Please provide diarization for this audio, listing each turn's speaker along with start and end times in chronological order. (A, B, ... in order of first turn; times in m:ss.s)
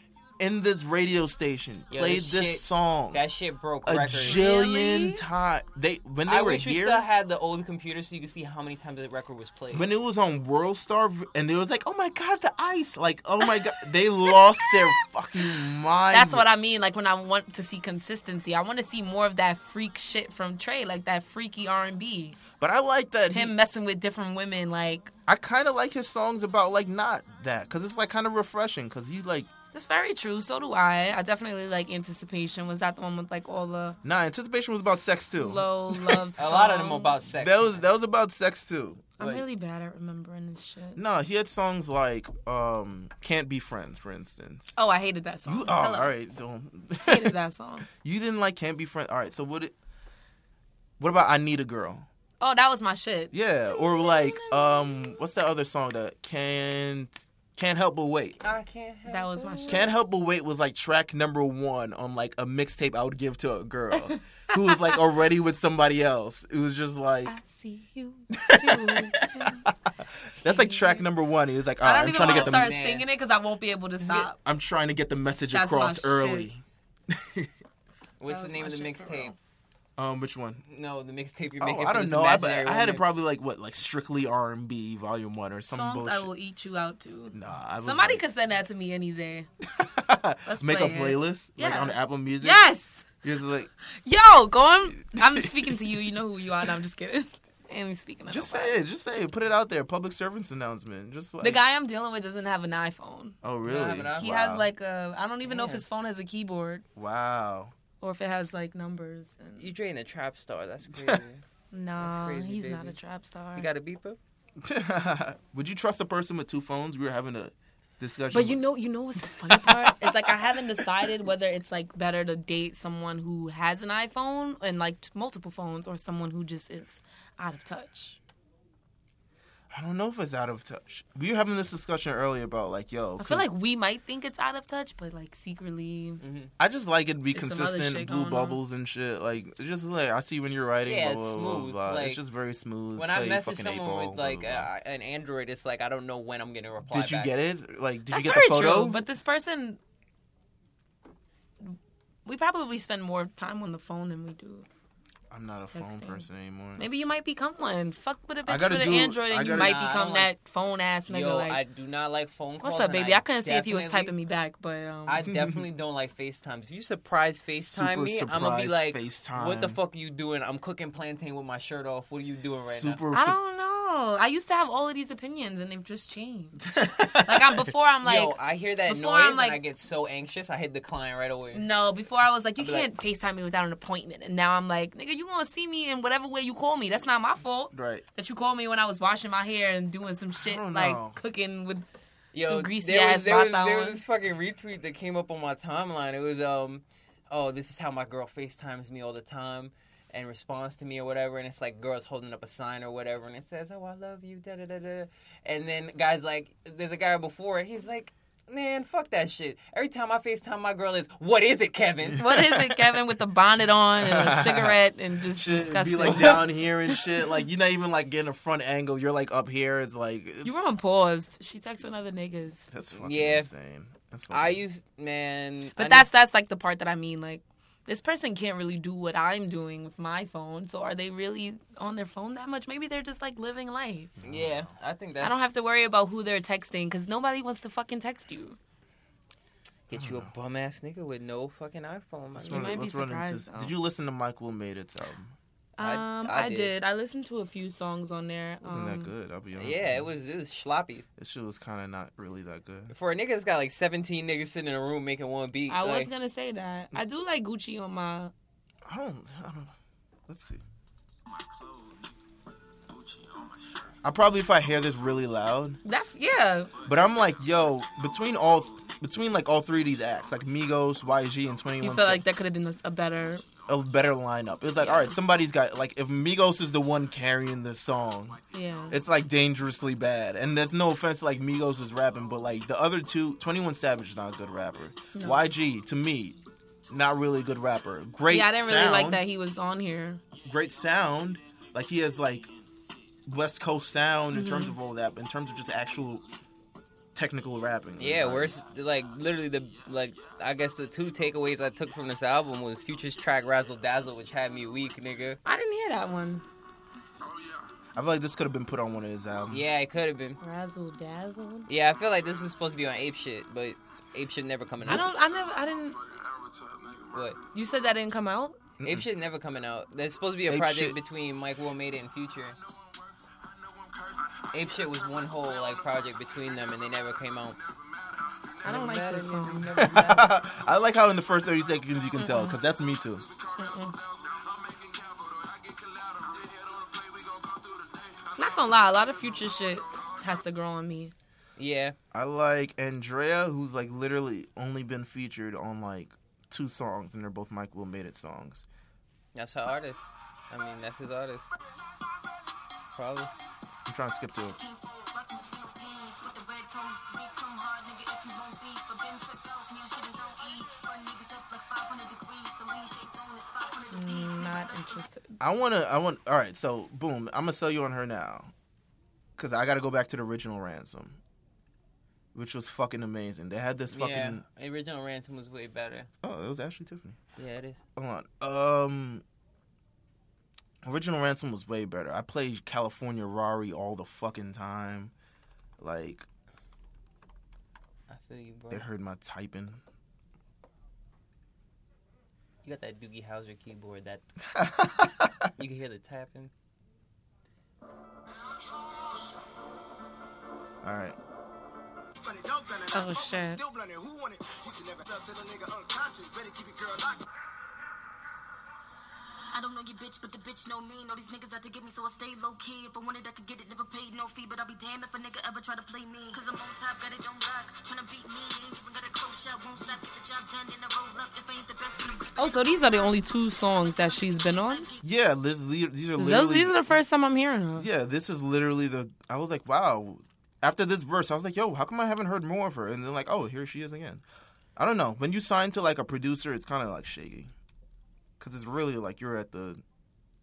0:00.4-0:03.2 A
0:01.9-0:04.5 B
0:03.8-0:07.1 A
0:04.2-0:05.2 C
0:06.3-0:09.9 B
0:09.7-0:16.4 A
0:13.5-0:13.7 C
0:16.1-0:22.4 C
0:22.6-0:23.6 A
0:23.3-0:25.1 C
0:25.3-0:29.5 A
0:29.7-0:34.0 C
0:34.0-0:36.3 A
0:35.0-0:37.2 C
0:36.4-0:37.8 B
0:37.3-0:39.4 A
0:39.2-0:41.0 C
0:41.0-0:44.7 A
0:44.8-0:46.1 C
0:45.4-0:47.4 A
0:47.0-0:47.9 C
0:47.9-0:49.7 A
0:51.0-0:52.1 A
0:52.4-0:55.2 C
0:53.3-0:58.4 A
0:58.4-0:59.9 B
0:59.1-0:59.9 C
0:59.7-1:07.4 A
1:03.9-1:05.0 C
1:07.3-1:09.7 C
1:08.3-1:12.8 A
1:10.4-1:11.0 C
1:11.8-1:14.4 C
1:12.2-1:13.0 B
1:14.0-1:17.5 A
1:15.5-1:16.5 C
1:18.2-1:19.3 B
1:18.3-1:19.4 C
1:20.0-1:20.6 A
1:20.7-1:23.1 B
1:21.6-1:26.3 A
1:25.7-1:29.5 C
1:27.3-1:28.2 A
1:29.6-1:32.7 A
1:30.5-1:33.1 C
1:33.2-1:33.7 A
1:34.0-1:38.8 C
1:35.0-1:36.0 A
1:38.3-1:41.6 A
1:41.4-1:43.4 C
1:43.4-1:44.7 A
1:43.6-1:44.3 B
1:44.2-1:46.8 C
1:45.4-1:45.8 B
1:47.0-1:47.7 A
1:48.0-1:49.7 C
1:49.6-1:51.4 B
1:50.9-1:51.2 A
1:51.7-1:53.7 C
1:52.0-1:53.0 B
1:53.6-1:54.2 B
1:54.6-1:58.6 A
1:58.3-2:08.2 C
1:59.2-2:01.1 A
2:09.7-2:13.5 A
2:13.2-2:16.2 C
2:16.2-2:16.5 B
2:16.6-2:24.7 A
2:17.3-2:18.6 C
2:20.9-2:22.2 B
2:23.0-2:27.3 B
2:26.9-2:29.0 A
2:28.1-2:29.8 C
2:31.6-2:34.7 C
2:35.3-2:37.1 A
2:35.7-2:41.6 C
2:38.5-2:39.8 A
2:39.5-2:40.3 B
2:41.1-2:44.1 B
2:42.6-2:45.3 C
2:45.1-2:53.0 B
2:45.3-2:45.6 A
2:47.6-2:49.8 A
2:52.7-2:53.4 A
2:53.1-2:59.6 C
2:56.7-2:57.7 A
2:58.0-3:01.6 B
3:01.5-3:11.9 C
3:02.6-3:02.9 B
3:07.7-3:08.0 A
3:10.4-3:11.2 A
3:12.3-3:32.3 B
3:12.4-3:14.0 C
3:32.1-3:32.9 A
3:32.2-3:37.3 C
3:34.0-3:34.8 A
3:35.3-3:40.7 A
3:36.0-3:36.4 B
3:40.4-3:42.7 C
3:42.7-3:44.6 A
3:43.0-3:43.5 B
3:44.3-3:46.1 B
3:45.8-3:54.2 C
3:54.2-3:54.7 A
3:54.2-3:55.5 B
3:55.2-3:58.6 C
3:59.9-4:02.8 B
3:59.9-4:00.3 A
4:02.4-4:05.4 A
4:02.5-4:03.7 C
4:05.8-4:09.1 C
4:05.8-4:06.7 B
4:08.6-4:10.1 A
4:09.6-4:11.1 B
4:11.2-4:12.9 A
4:12.9-4:16.1 B
4:15.7-4:18.3 C
4:18.8-4:19.7 A
4:20.3-4:20.6 A
4:24.0-4:25.8 A
4:25.8-4:26.8 C
4:26.8-4:32.2 A
4:31.8-4:33.4 C
4:33.7-4:38.4 A
4:34.8-4:35.2 C
4:38.5-4:39.0 C
4:38.9-4:46.4 A
4:45.1-4:45.4 C
4:46.9-4:49.2 A
4:48.3-4:50.2 C
4:50.4-4:52.5 A
4:53.3-4:56.3 A
4:54.3-4:54.8 C
4:57.2-4:58.6 A
4:58.0-5:05.4 B
5:05.4-5:06.4 C
5:08.0-5:09.7 A
5:09.5-5:10.4 B
5:10.4-5:11.7 C
5:11.7-5:15.1 B
5:14.9-5:16.0 C
5:17.1-5:17.4 B
5:17.5-5:18.6 C
5:18.8-5:19.1 A
5:18.8-5:22.6 B
5:20.5-5:21.0 A
5:24.5-5:27.6 B
5:28.6-5:30.4 B
5:28.6-5:29.8 C
5:29.7-5:33.2 A
5:32.2-5:32.6 C
5:33.6-5:34.0 C
5:38.4-5:41.1 C
5:41.6-5:42.0 B
5:42.1-5:48.6 A
5:49.4-5:51.5 B
5:52.9-5:53.3 B
5:53.9-5:54.6 A
5:54.6-6:05.0 D
6:03.9-6:05.4 C
6:05.4-6:08.5 A
6:09.4-6:11.2 A
6:12.3-6:14.4 A
6:13.9-6:16.1 B
6:16.2-6:17.2 A
6:17.4-6:17.8 B
6:18.0-6:19.2 A
6:20.8-6:25.1 A
6:25.8-6:26.3 A
6:28.1-6:28.9 B
6:28.7-6:29.8 A
6:32.6-6:34.2 B
6:34.5-6:35.5 A
6:35.6-6:36.5 B
6:40.8-6:41.2 A
6:42.4-6:47.0 D
6:42.9-6:43.6 C
6:49.5-7:05.1 D
7:02.4-7:04.9 C
7:05.0-7:07.0 A
7:06.2-7:07.9 C
7:07.8-7:14.2 A
7:14.8-7:17.5 A
7:18.4-7:19.8 A